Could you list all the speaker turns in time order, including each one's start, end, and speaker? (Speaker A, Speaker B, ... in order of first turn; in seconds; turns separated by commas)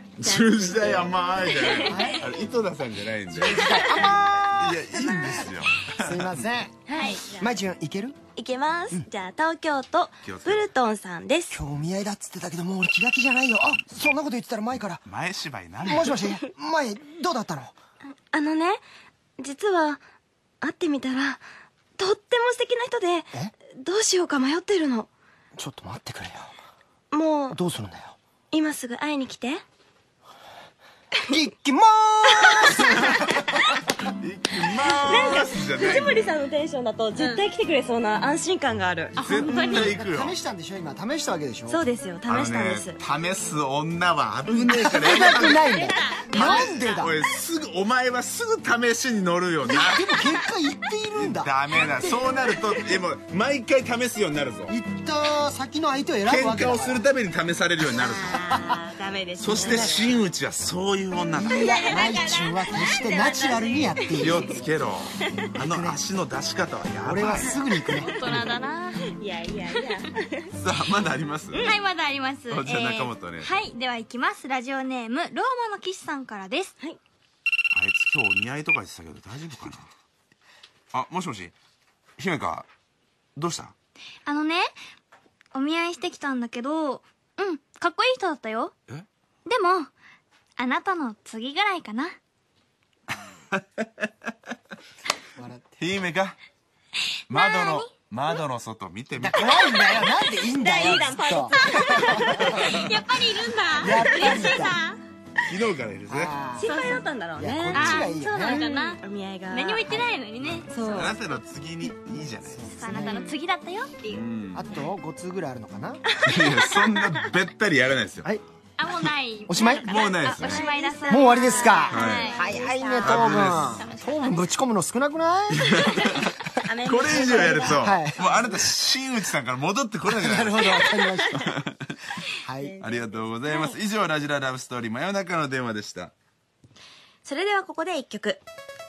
Speaker A: 0.2-4.0, Speaker B: 0.2-2.2, Speaker C: 1.9-2.2, Speaker C: 3.3-5.5, Speaker B: 3.6-4.0, Speaker A: 4.6-6.4, Speaker C: 6.0-8.2, Speaker B: 6.9-7.5, Speaker B: 8.3-11.6, Speaker A: 10.2-10.7, Speaker C: 11.5-15.0, Speaker A: 15.0-16.4, Speaker C: 15.8-17.8, Speaker B: 18.3-18.8, Speaker B: 19.4-20.0, Speaker B: 20.6-21.4, Speaker B: 22.0-25.1, Speaker C: 25.6-26.5, Speaker B: 27.1-27.6, Speaker C: 27.5-28.1, Speaker B: 28.5-29.6, Speaker C: 31.3-33.6, Speaker B: 32.4-33.0, Speaker A: 33.0-33.4, Speaker A: 34.0-36.3, Speaker B: 34.9-40.0, Speaker D: 37.2-37.4, Speaker D: 39.2-40.0, Speaker A: 39.2-40.3, Speaker C: 39.6-41.8, Speaker B: 41.7-43.0, Speaker A: 42.3-45.8, Speaker C: 44.5-47.1, Speaker B: 44.9-46.6, Speaker D: 46.3-47.0, Speaker A: 46.3-50.1, Speaker C: 49.6-51.5, Speaker A: 51.2-54.7, Speaker C: 54.7-57.0, Speaker A: 56.3-58.5, Speaker B: 58.0-60.2, Speaker A: 59.4-61.8, Speaker C: 59.5-59.9, Speaker C: 61.4-64.5, Speaker B: 61.4-64.5, Speaker A: 64.2-67.6, Speaker C: 65.5-66.0, Speaker C: 67.0-68.1, Speaker B: 67.4-68.4, Speaker D: 67.9-69.1, Speaker B: 69.0-70.5, Speaker A: 70.6-71.7, Speaker B: 71.5-71.8, Speaker D: 71.6-76.7, Speaker A: 72.5-73.5, Speaker A: 77.7-79.9, Speaker A: 80.9-81.5, Speaker A: 82.2-82.7, Speaker A: 83.4-83.7, Speaker D: 84.3-84.7, Speaker D: 85.5-88.7, Speaker D: 89.5-89.9, Speaker D: 90.6-92.2, Speaker A: 93.5-94.1, Speaker C: 95.4-95.7, Speaker A: 95.8-96.4, Speaker A: 97.3-99.5, Speaker D: 97.3-97.9, Speaker C: 99.2-102.5, Speaker B: 99.5-102.8, Speaker D: 101.8-105.0, Speaker A: 102.4-102.8, Speaker C: 103.8-104.8, Speaker B: 104.1-104.6, Speaker A: 105.5-106.3, Speaker C: 106.1-106.7, Speaker B: 106.6-110.0, Speaker D: 106.7-107.0, Speaker C: 107.4-108.7, Speaker D: 107.7-110.8, Speaker B: 110.7-111.2, Speaker A: 110.8-112.7, Speaker C: 112.4-113.3, Speaker D: 112.7-114.2, Speaker B: 113.0-113.3, Speaker A: 114.1-114.7, Speaker C: 114.5-116.0, Speaker B: 116.1-117.2, Speaker A: 116.2-118.3, Speaker D: 118.8-122.4, Speaker C: 119.5-119.9, Speaker B: 119.6-123.4, Speaker A: 119.9-120.6, Speaker C: 121.1-126.0, Speaker A: 121.9-122.3, Speaker D: 123.0-124.5, Speaker A: 123.0-123.8, Speaker A: 125.5-126.3, Speaker B: 126.6-128.6, Speaker A: 126.8-132.2, Speaker C: 127.1-128.2, Speaker C: 130.1-131.5, Speaker C: 132.4-132.8, Speaker B: 132.6-133.8, Speaker A: 132.8-136.1, Speaker B: 137.2-138.4